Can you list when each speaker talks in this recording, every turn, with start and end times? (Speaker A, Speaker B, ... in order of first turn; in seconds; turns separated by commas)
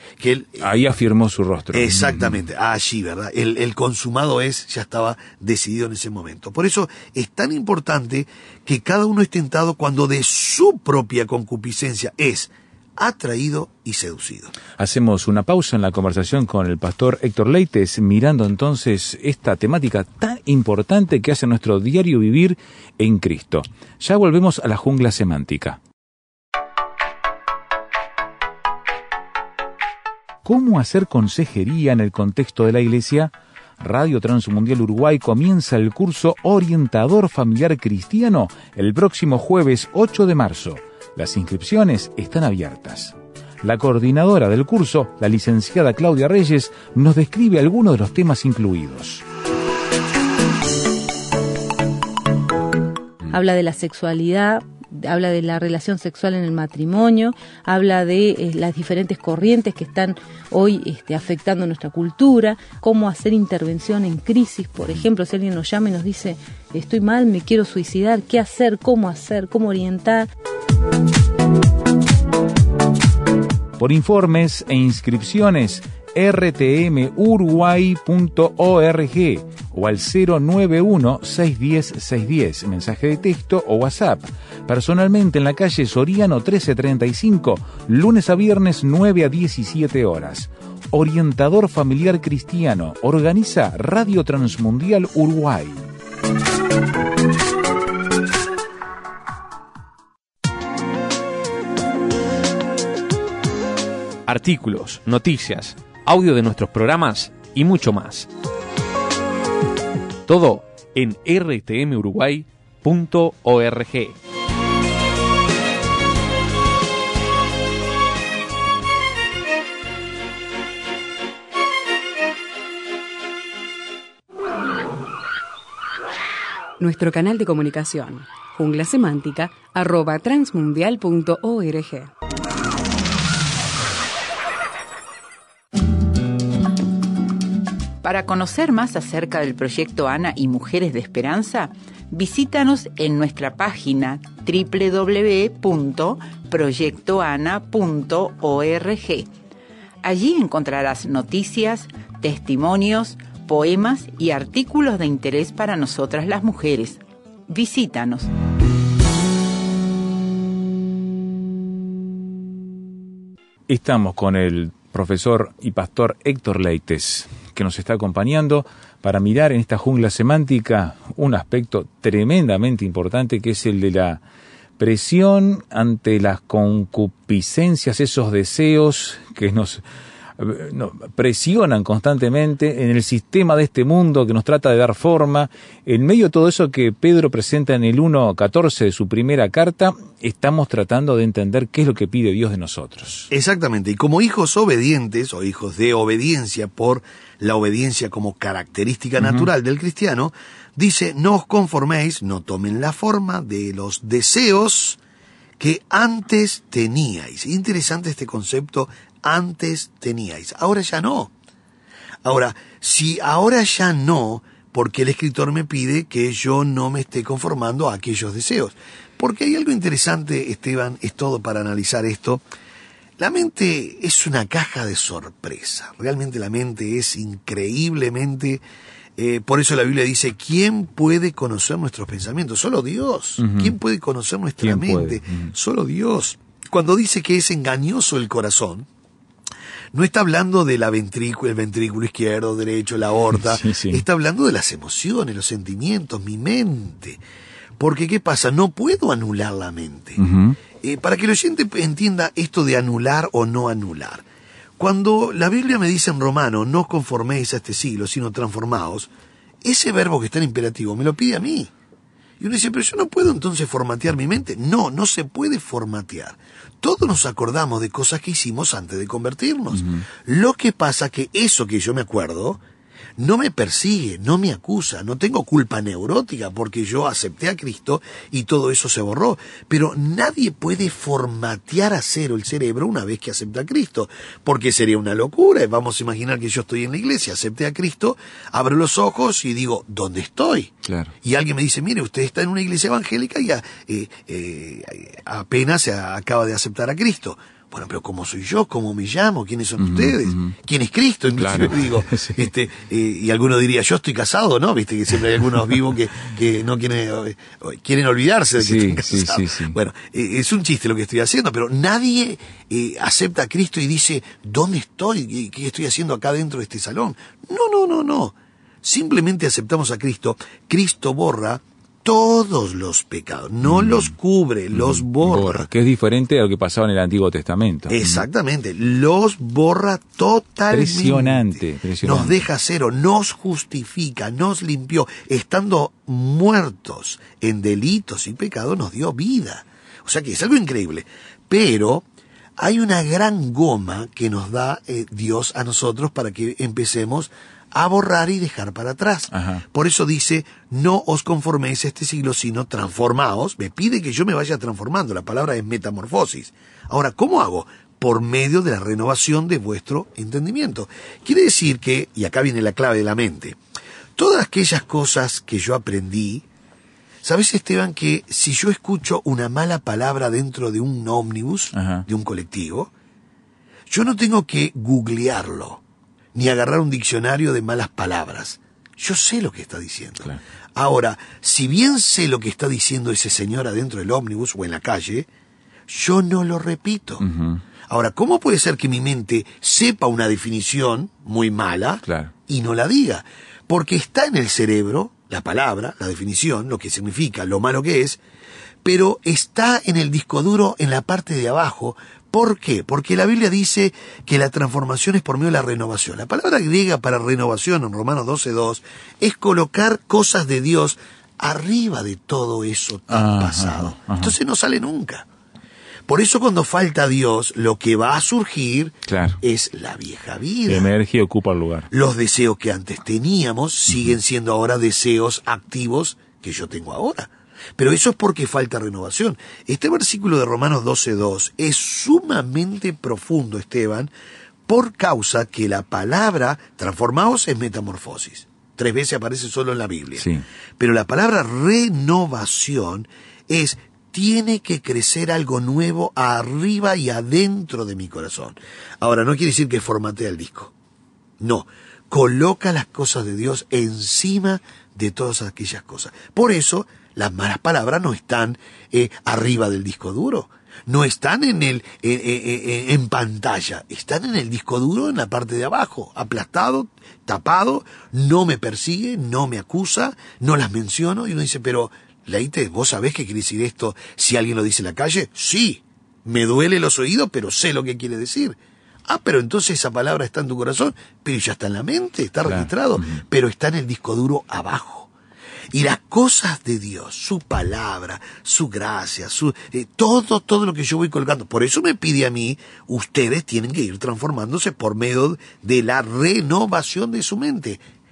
Speaker A: 0.2-0.7, Speaker B: 0.6-2.4, Speaker A: 1.7-14.6, Speaker B: 14.8-25.8, Speaker B: 30.4-49.2, Speaker C: 53.3-70.3, Speaker B: 73.8-95.9, Speaker D: 104.3-108.3, Speaker D: 110.3-114.2, Speaker E: 126.8-132.1, Speaker F: 138.0-149.3, Speaker F: 150.0-158.3, Speaker B: 163.7-174.2, Speaker B: 174.8-179.8, Speaker B: 180.4-193.3, Speaker A: 193.3-205.0, Speaker B: 199.2-199.5, Speaker A: 205.6-211.3, Speaker A: 212.2-222.4, Speaker A: 223.2-228.6, Speaker A: 229.2-238.9, Speaker B: 233.4-233.8, Speaker B: 234.6-235.5, Speaker A: 239.9-247.2, Speaker B: 243.3-244.1, Speaker A: 247.8-250.2, Speaker B: 250.2-250.6, Speaker A: 250.8-254.2, Speaker A: 254.8-259.1, Speaker A: 259.6-261.7, Speaker A: 262.4-272.6, Speaker B: 269.7-270.1, Speaker A: 273.2-325.7, Speaker B: 290.8-291.1, Speaker B: 299.8-300.6, Speaker B: 301.3-302.5, Speaker B: 308.6-309.8, Speaker B: 323.6-324.1, Speaker B: 324.7-328.3, Speaker A: 327.9-342.1, Speaker B: 330.7-332.4, Speaker A: 342.6-363.6, Speaker B: 349.3-349.6, Speaker A: 364.2-366.4, Speaker A: 367.2-372.9, Speaker B: 371.7-372.1, Speaker A: 373.9-375.8, Speaker A: 376.4-385.3, Speaker A: 385.9-387.2, Speaker B: 387.2-387.6, Speaker A: 387.9-398.2, Speaker B: 392.1-392.3, Speaker A: 398.8-415.3, Speaker B: 413.1-414.4, Speaker A: 416.1-420.9, Speaker B: 419.1-419.4, Speaker B: 420.7-421.9, Speaker A: 421.9-434.1, Speaker A: 434.7-440.3, Speaker B: 440.2-440.4, Speaker A: 440.8-450.7, Speaker A: 451.4-485.1, Speaker B: 482.4-483.2, Speaker A: 485.7-497.8